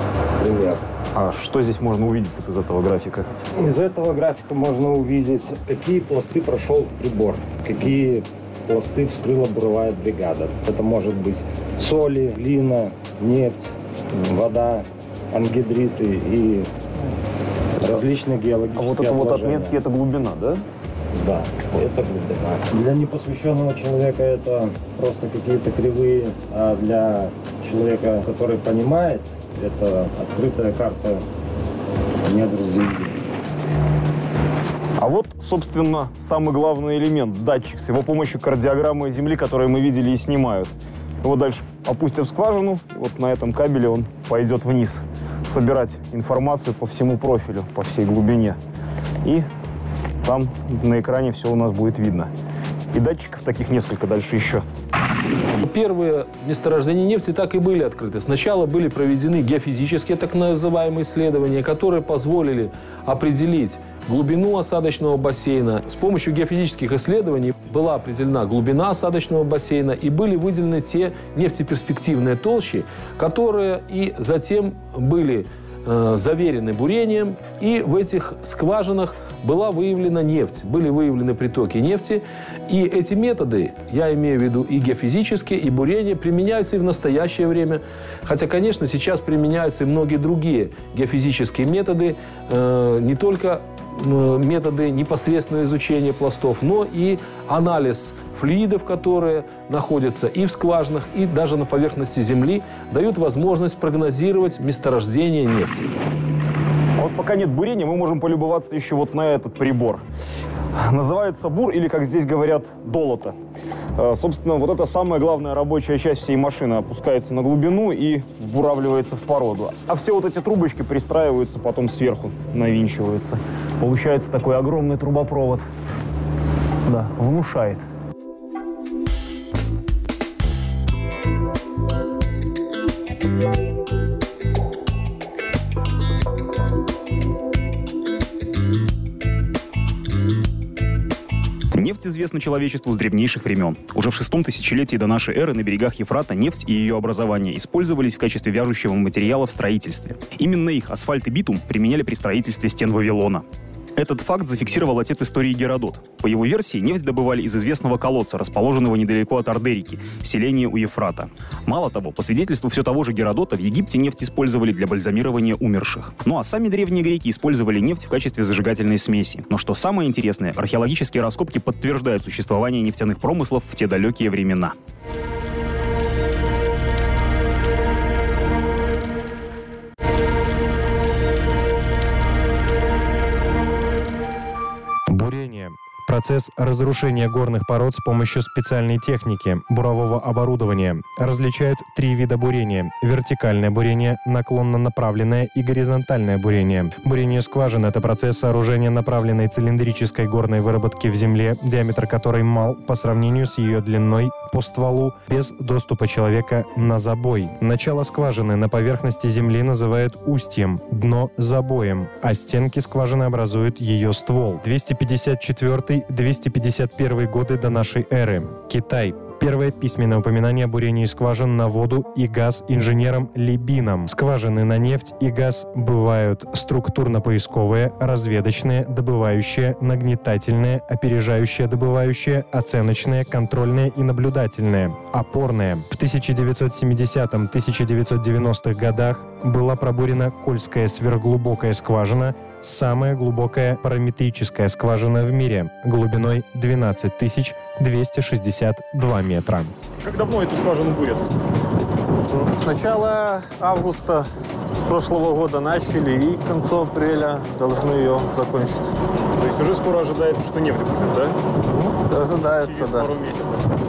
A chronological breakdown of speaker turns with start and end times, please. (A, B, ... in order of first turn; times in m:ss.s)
0:00.4-0:00.8 A
0:01.1-0:03.3 B
0:03.4-0:16.7 A
0:17.8-0:19.8 A
0:18.7-0:20.6 B
0:21.1-0:31.2 A
0:32.2-0:33.2 A
0:35.0-0:40.7 B
0:41.2-0:48.6 B
0:50.2-0:52.3 B
0:52.9-0:54.6 B
0:55.6-1:45.9 C
1:47.0-1:50.0 B
1:50.8-1:53.3 B
1:54.0-2:05.6 B
2:06.8-2:07.8 B
2:21.7-2:33.4 D
2:34.0-2:54.8 D
3:05.1-4:09.7 E
4:10.0-4:11.3 B
4:12.3-4:14.3 F
4:14.8-4:18.9 F
4:19.3-4:21.4 B
4:21.7-4:23.1 F
4:22.5-4:23.7 B